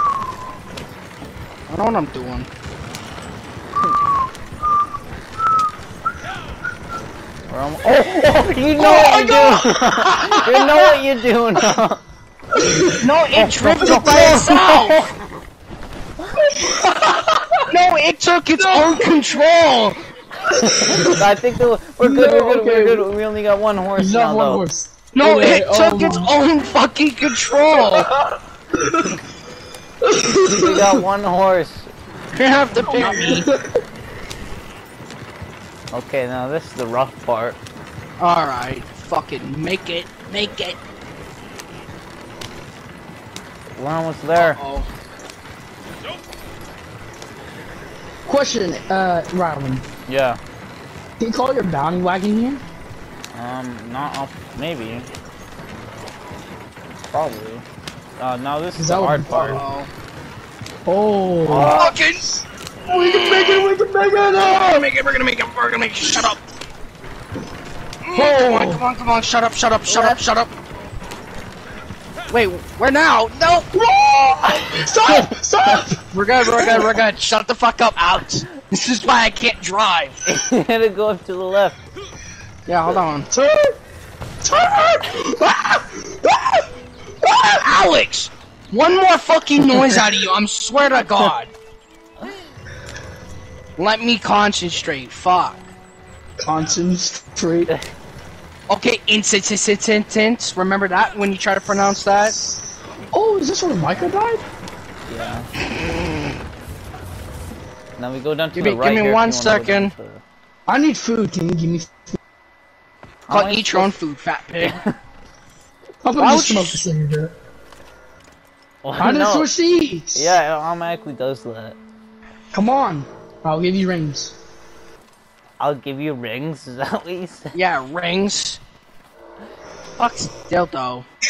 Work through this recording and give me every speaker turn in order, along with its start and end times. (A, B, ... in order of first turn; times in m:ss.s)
0:01.7-0:02.5 A
0:07.5-0:12.0 B
0:08.8-0:09.7 A
0:10.0-0:10.9 C
0:12.6-0:13.1 C
0:13.0-0:15.1 A
0:13.4-0:15.1 B
0:13.8-0:14.0 C
0:16.4-0:17.6 C
0:17.7-0:20.0 A
0:18.6-0:19.2 C
0:20.5-0:24.6 B
0:20.6-0:21.3 C
0:22.0-0:23.1 C
0:24.0-0:26.3 C
0:25.1-0:28.1 A
0:27.8-0:29.2 C
0:30.0-0:31.0 C
0:30.5-0:31.9 B
0:32.4-0:33.5 A
0:32.9-0:33.8 C
0:35.9-0:37.6 B
0:38.2-0:40.8 A
0:43.8-0:44.6 B
0:44.4-0:44.9 A
0:48.3-0:49.8 C
0:50.1-0:50.4 B
0:51.2-0:52.6 C
0:53.3-0:55.1 B
0:57.0-0:57.6 B
0:58.2-0:59.6 B
0:58.8-0:59.6 C
0:59.5-0:59.9 A
1:00.9-1:01.9 C
1:01.5-1:01.9 B
1:01.7-1:03.7 A
1:02.9-1:04.9 C
1:04.4-1:06.4 A
1:08.0-1:10.5 A
1:08.1-1:08.8 C
1:09.9-1:10.2 B
1:12.3-1:13.7 A
1:13.7-1:16.8 C
1:14.5-1:15.9 B
1:16.1-1:20.2 A
1:20.3-1:21.9 B
1:22.7-1:23.3 A
1:23.3-1:23.8 C
1:24.4-1:26.6 C
1:27.2-1:31.5 A
1:33.8-1:35.6 A
1:36.4-1:37.7 C
1:38.7-1:42.4 A
1:43.1-1:44.4 C
1:45.1-1:45.5 B
1:48.0-1:50.2 B
1:48.5-1:49.9 A
1:50.7-1:52.1 C
1:53.3-1:53.9 B
1:53.3-1:54.8 A
1:54.6-1:55.0 B
1:56.0-1:57.4 C
1:56.2-1:56.8 A
1:58.8-1:59.5 B
1:59.0-2:00.4 C
2:00.1-2:01.8 B
2:02.5-2:04.4 C
2:05.6-2:07.5 B
2:07.5-2:08.6 A
2:10.0-2:11.0 A